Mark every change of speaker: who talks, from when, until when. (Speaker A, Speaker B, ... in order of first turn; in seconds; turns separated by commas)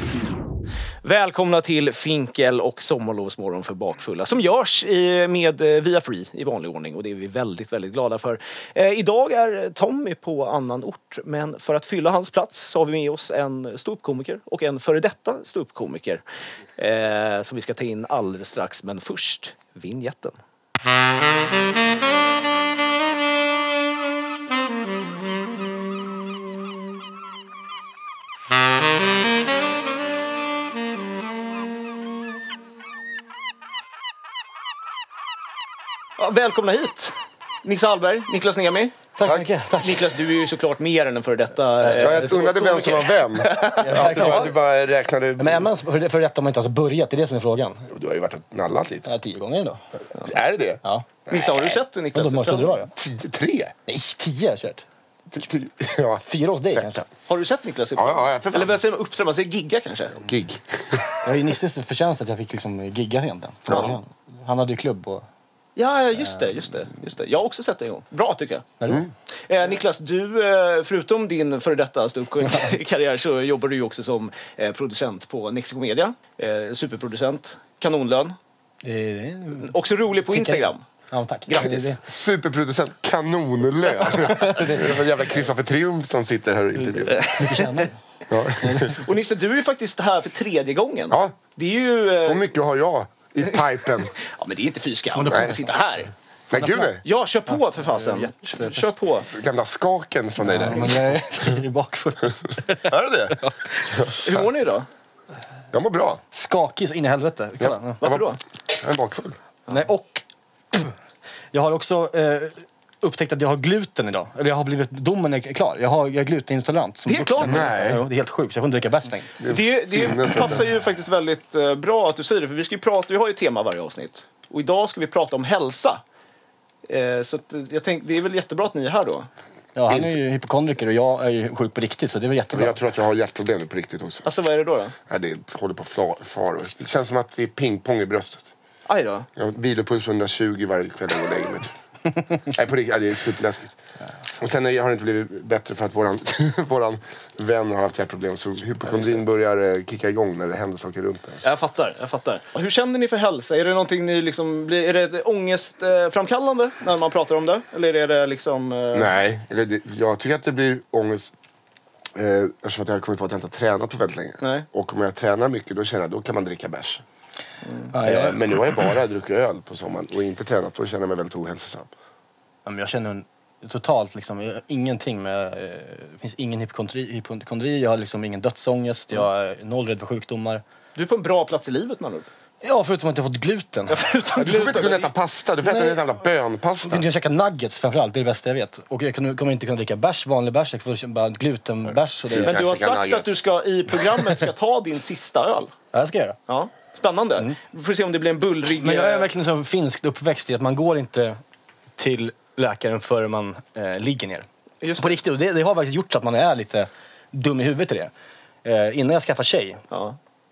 Speaker A: 1.0-16.2, Speaker A: 16.8-20.4, Speaker A: 36.2-39.0, Speaker B: 39.2-40.1, Speaker A: 39.8-44.5, Speaker B: 41.8-42.3, Speaker C: 42.0-45.7, Speaker B: 43.8-44.5, Speaker B: 45.4-47.9, Speaker C: 47.9-49.1, Speaker B: 49.0-49.8, Speaker C: 50.2-50.8, Speaker B: 50.8-52.9, Speaker A: 51.3-52.9, Speaker C: 52.9-53.8, Speaker B: 53.9-54.8, Speaker C: 55.3-56.2, Speaker B: 56.2-57.1, Speaker A: 57.3-60.2, Speaker C: 58.0-58.8, Speaker C: 60.2-61.0, Speaker B: 61.2-65.2, Speaker C: 63.7-63.9, Speaker A: 65.8-68.7, Speaker B: 68.8-69.0, Speaker A: 69.5-78.4, Speaker B: 78.8-79.8, Speaker A: 79.6-80.8, Speaker B: 80.3-82.0, Speaker A: 81.5-81.8, Speaker C: 81.6-87.6, Speaker B: 84.3-85.0, Speaker B: 87.1-88.0, Speaker C: 88.3-89.0, Speaker B: 88.6-89.0, Speaker A: 89.0-92.4, Speaker C: 92.2-94.1, Speaker A: 94.2-96.1, Speaker B: 95.1-95.6, Speaker C: 96.5-97.0, Speaker B: 96.5-97.0, Speaker A: 97.0-99.3, Speaker B: 97.8-98.9, Speaker C: 99.3-101.5, Speaker B: 100.4-104.1, Speaker C: 102.8-104.4, Speaker A: 104.2-104.9, Speaker C: 105.7-106.2, Speaker B: 106.3-108.0, Speaker C: 107.6-109.4, Speaker A: 108.0-108.4, Speaker B: 109.7-110.9, Speaker B: 111.5-119.3, Speaker A: 117.1-117.7, Speaker C: 117.5-118.0, Speaker C: 119.4-120.6, Speaker A: 119.5-126.0, Speaker A: 126.9-129.3, Speaker B: 129.8-132.8, Speaker C: 132.5-134.3, Speaker A: 134.2-134.9, Speaker C: 135.1-138.5, Speaker A: 138.9-139.3, Speaker C: 139.4-141.7, Speaker C: 142.3-143.7, Speaker C: 144.4-151.4, Speaker A: 151.4-159.1, Speaker C: 158.9-161.3, Speaker C: 162.2-167.0, Speaker A: 164.4-164.7, Speaker A: 167.6-167.9, Speaker B: 167.9-168.4, Speaker C: 168.0-171.9, Speaker B: 172.7-180.6, Speaker A: 180.9-182.3, Speaker B: 182.6-184.8, Speaker A: 183.9-185.1, Speaker C: 184.4-187.1, Speaker B: 185.7-186.0, Speaker B: 186.8-192.6, Speaker C: 192.3-193.4, Speaker A: 192.4-195.7, Speaker B: 195.9-196.4, Speaker A: 196.5-199.3, Speaker B: 198.8-201.4, Speaker B: 202.0-204.5, Speaker A: 204.8-205.2, Speaker B: 205.0-208.1, Speaker B: 208.6-209.8, Speaker A: 209.9-210.2